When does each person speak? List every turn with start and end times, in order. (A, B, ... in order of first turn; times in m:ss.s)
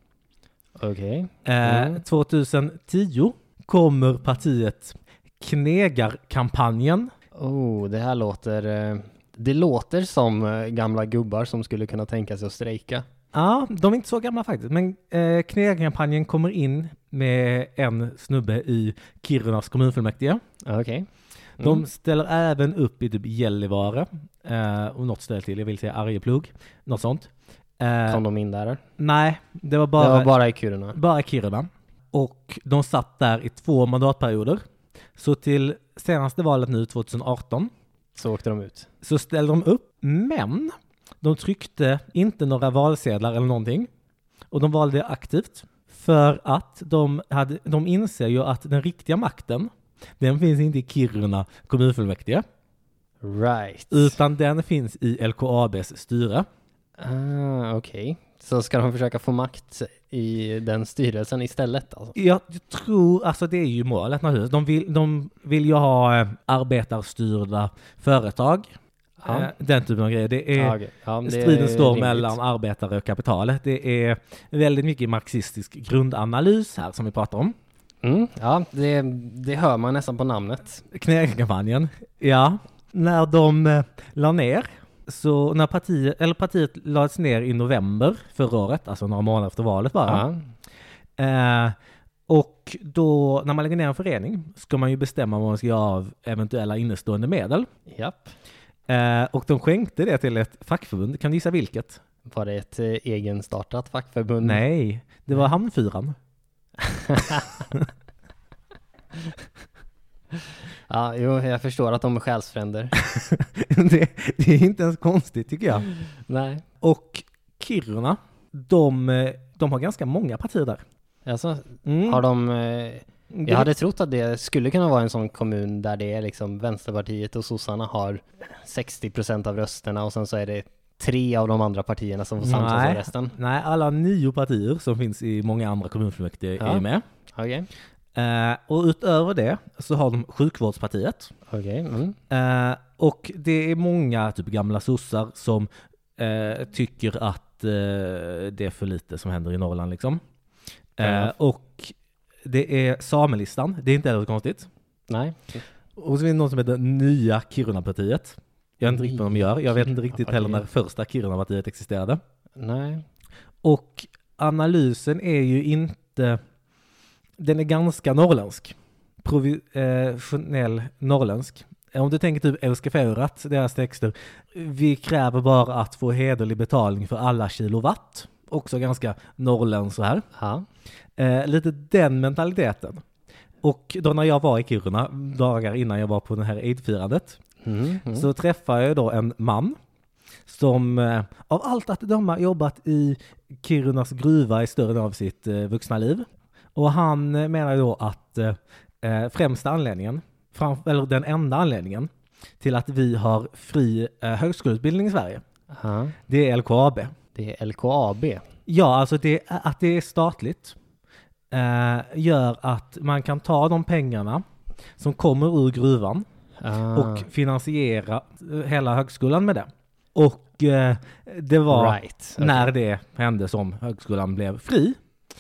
0:00.8-0:02.0 A
0:01.5-0:07.1 B
0:07.4-0:13.0 A
0:13.3-0:20.4 B
0:20.6-0:21.1 A
0:21.6-0:21.8 A
0:21.6-0:28.2 B
0:28.1-0:28.8 A
0:29.0-0:30.3 B
0:30.0-0:31.0 A
0:31.0-0:34.6 B
0:35.2-0:37.7 B
0:38.2-0:38.9 A
0:39.0-0:43.9 B
0:44.5-0:52.4 B
0:53.2-0:54.2 A
0:53.9-0:56.5 B
0:57.0-1:02.2 A
1:02.2-1:08.7 B
1:09.2-1:09.5 A
1:09.2-1:17.6 B
1:10.6-1:12.4 A
1:18.0-1:20.8 A
1:20.9-1:30.3 B
1:30.1-1:30.5 A
1:31.2-1:31.8 B
1:32.3-1:37.7 B
1:37.9-1:38.3 A
1:38.9-1:42.0 B
1:42.3-1:44.6 A
1:44.4-1:46.2 B
1:46.8-1:47.5 A
1:50.9-1:53.0 A
1:53.0-1:55.9 B
1:56.3-1:56.6 A
1:56.8-2:00.8 B
2:01.3-2:13.4 A
2:01.9-2:02.2 B
2:03.3-2:03.7 B
2:12.4-2:17.0 B
2:16.6-2:17.7 A
2:18.2-2:21.3 B
2:21.5-2:22.2 A
2:22.3-2:30.2 B
2:31.0-2:31.9 B
2:31.0-2:31.3 A
2:32.5-2:34.7 B
2:35.1-2:35.6 A
2:36.0-2:42.2 B
2:38.8-2:40.6 A
2:42.6-2:43.0 A
2:43.6-2:46.4 B
2:47.4-3:00.2 B
3:00.4-3:00.7 A
3:01.2-3:03.0 B
3:03.6-3:07.4 B
3:07.6-3:08.3 A
3:08.2-3:09.8 B
3:10.5-3:22.1 B
3:22.6-3:25.4 B
3:25.7-3:26.2 A
3:26.3-3:27.1 B
3:27.4-3:28.4 A
3:28.7-3:30.8 B
3:31.5-3:34.4 B
3:35.0-3:36.2 B
3:36.6-3:37.3 A
3:36.9-3:45.0 B
3:41.7-3:42.7 A